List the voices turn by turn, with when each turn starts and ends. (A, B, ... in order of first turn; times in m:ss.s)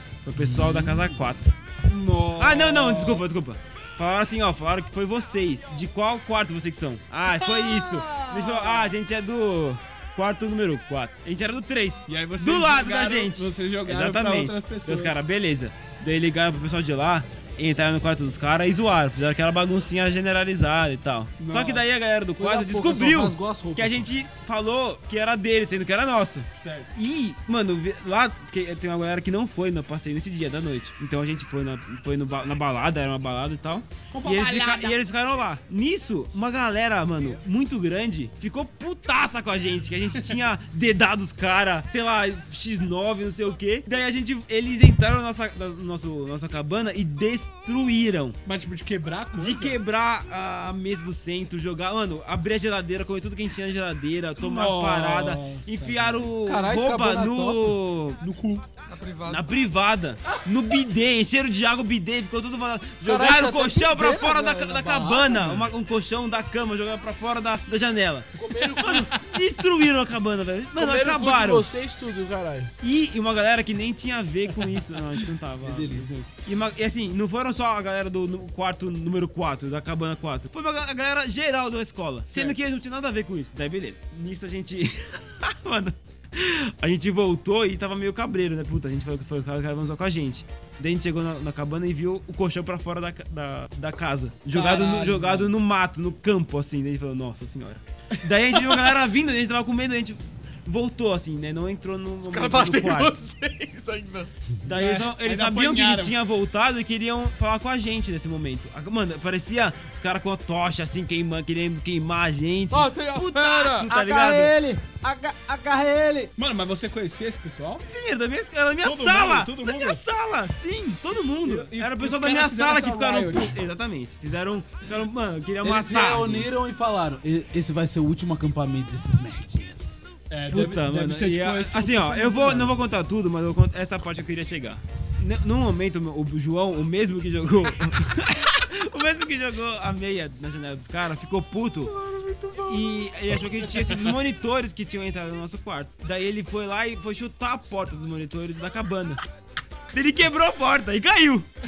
0:00.2-0:01.5 A
0:00.4-0:01.0 B
0:01.8-0:03.3 B
0:02.4-0:48.4 A
0:07.4-0:09.0 B
0:12.1-0:15.2 B
0:21.4-0:21.8 B
0:22.4-0:24.1 C
0:26.6-0:26.9 B
0:34.1-0:35.0 B
0:48.5-0:49.8 B
0:49.3-0:58.2 A
0:54.4-0:56.3 B
0:56.4-0:57.8 C
0:58.2-0:58.6 B
0:58.9-0:59.5 D
0:59.3-1:11.7 A
1:03.0-1:05.7 C
1:08.4-1:09.2 E
1:10.8-1:12.7 E
1:12.8-1:43.2 A
1:15.6-1:16.1 C
1:22.3-1:22.6 B
1:34.5-1:35.5 B
1:38.5-1:38.8 B
1:42.2-1:44.3 D
1:44.6-1:54.6 A
1:44.7-1:46.2 B
1:52.7-1:53.9 D
1:53.8-1:56.3 C
1:56.4-1:57.9 B
1:57.9-2:06.5 A
1:58.8-2:00.0 B
2:01.4-2:03.6 B
2:05.6-2:10.0 C
2:10.3-2:12.8 B
2:10.5-2:21.9 A
2:21.9-2:23.0 B
2:22.6-2:29.2 A
2:23.6-2:24.1 B
2:29.9-2:31.5 A